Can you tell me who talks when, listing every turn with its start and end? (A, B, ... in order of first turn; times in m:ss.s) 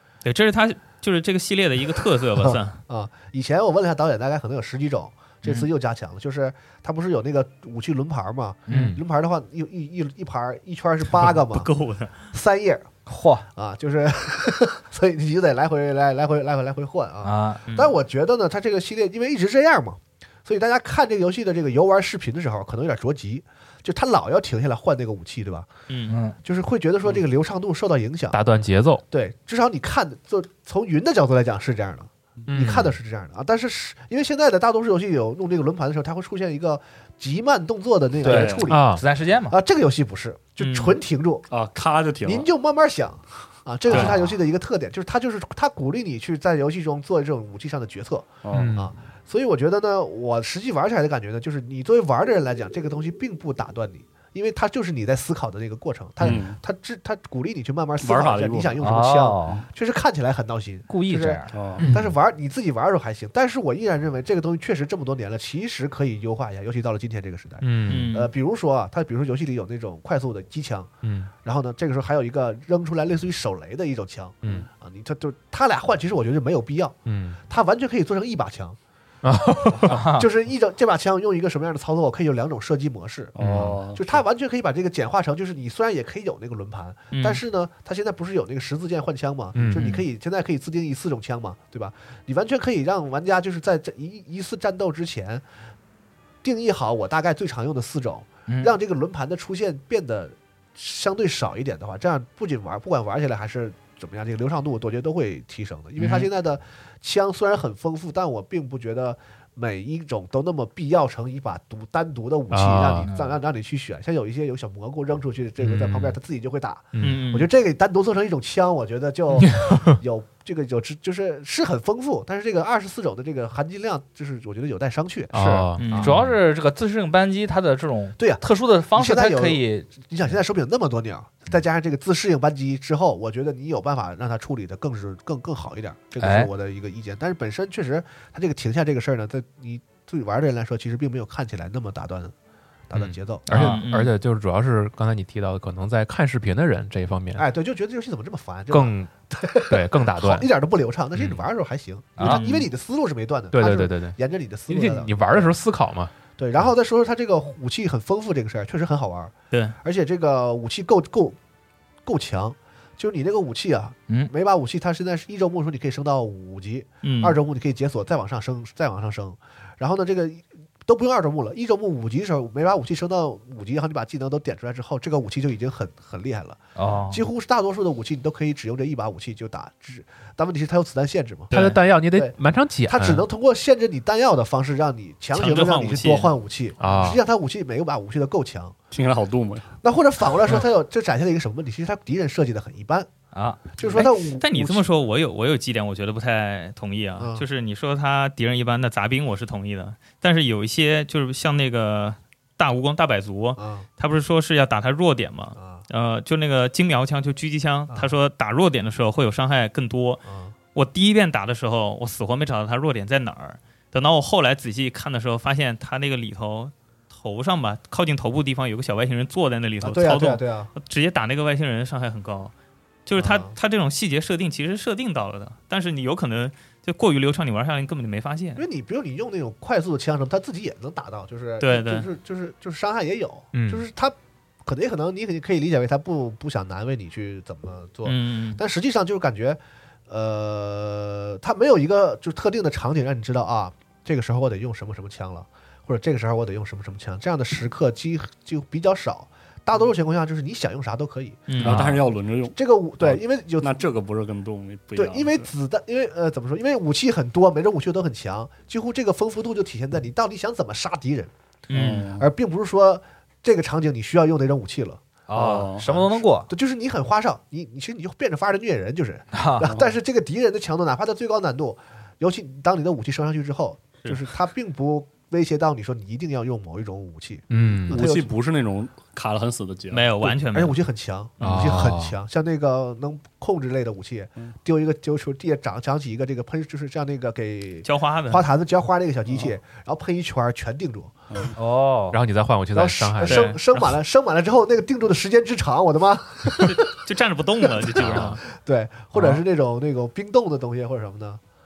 0:00.2-0:02.8 A
0:02.4-0:11.7 B
0:08.7-0:09.0 C
0:08.7-0:09.0 D
0:11.1-0:12.3 A
0:12.3-0:13.0 B
0:13.1-0:13.5 C
0:13.5-0:25.7 B
0:17.2-0:17.6 C
0:17.7-0:17.9 A
0:25.9-0:26.2 A
0:26.1-0:26.4 C
0:26.4-0:28.4 B
0:28.3-0:29.0 D
0:29.1-0:41.5 B
0:32.5-0:33.0 D
0:38.2-0:38.7 E
0:38.2-0:39.6 C
0:38.7-0:39.0 D
0:40.6-0:41.0 A
0:41.5-0:42.5 E
0:42.2-1:10.9 B
0:43.9-0:44.2 A
0:48.4-0:48.7 E
0:48.5-0:48.9 D
0:56.2-0:56.6 E
0:58.0-0:58.8 E
0:58.8-0:59.6 C
1:00.9-1:01.5 C
1:01.5-1:01.9 E
1:01.8-1:02.1 D
1:07.6-1:08.1 D
1:07.9-1:08.3 A
1:11.0-1:11.3 D
1:11.4-1:17.0 B
1:14.4-1:14.7 E
1:17.0-1:17.4 D
1:17.5-1:18.8 B
1:19.2-1:20.0 D
1:19.8-1:20.3 C
1:20.2-1:35.4 B
1:23.4-1:24.2 E
1:23.4-1:23.8 D
1:27.1-1:27.4 A
1:29.6-1:30.0 D
1:36.4-2:06.1 B
1:38.5-1:38.8 C
1:46.0-1:46.3 C
1:52.5-1:53.1 D
1:53.0-1:53.4 C
1:55.6-1:56.2 D
1:57.0-1:57.2 D
1:57.0-1:57.5 A
1:59.4-2:00.0 D
2:05.3-2:06.4 D
2:05.8-2:06.1 A
2:06.0-2:09.9 C
2:08.2-2:22.3 B
2:16.2-2:16.5 C
2:22.9-2:23.7 B
2:22.9-2:27.4 D
2:23.5-2:24.1 A
2:27.4-2:35.6 B
2:28.7-2:29.1 D
2:29.6-2:30.5 D
2:31.2-2:31.4 D
2:32.2-2:32.4 C
2:32.2-2:32.7 A
2:33.5-2:36.7 D
2:36.4-2:41.4 B
2:39.5-2:39.8 A
2:42.1-3:01.5 B
2:47.0-2:47.4 A
2:56.8-2:57.2 C
3:01.5-3:01.8 A
3:01.5-3:03.2 D
3:02.1-3:08.8 B
3:05.3-3:06.3 A
3:06.8-3:07.2 D
3:08.9-3:09.7 E
3:09.8-3:13.1 B
3:13.3-3:13.7 C
3:13.7-3:14.9 B
3:13.9-3:42.5 A
3:17.2-3:17.4 B
3:23.6-3:23.9 B
3:25.6-3:25.8 B
3:27.9-3:28.2 B
3:30.2-3:30.5 B
3:39.8-3:40.7 B
3:43.1-3:48.6 A
3:43.2-3:43.6 B
3:48.6-4:11.5 B
3:51.6-3:52.1 A
3:53.5-3:53.8 D
3:58.0-3:58.6 A
4:11.5-4:11.8 A
4:11.6-4:15.5 E
4:11.6-4:12.0 D
4:12.6-4:13.8 B
4:14.9-4:21.3 B
4:21.7-4:22.0 A
4:21.7-4:22.3 E
4:22.2-4:25.0 B
4:25.3-4:26.5 C
4:25.3-4:25.8 E
4:25.8-4:38.3 B
4:29.3-4:29.8 C
4:37.5-4:38.0 D
4:37.9-4:40.3 E
4:39.9-4:40.8 A
4:40.2-4:51.1 B
4:41.4-4:42.2 D
4:47.8-4:48.5 A
4:51.6-4:52.2 C
4:52.1-4:53.6 D
4:52.7-4:56.9 B
4:53.2-4:54.0 A
4:56.6-4:58.4 A
4:57.8-5:01.4 B
4:58.0-4:58.4 D
4:59.2-4:59.4 C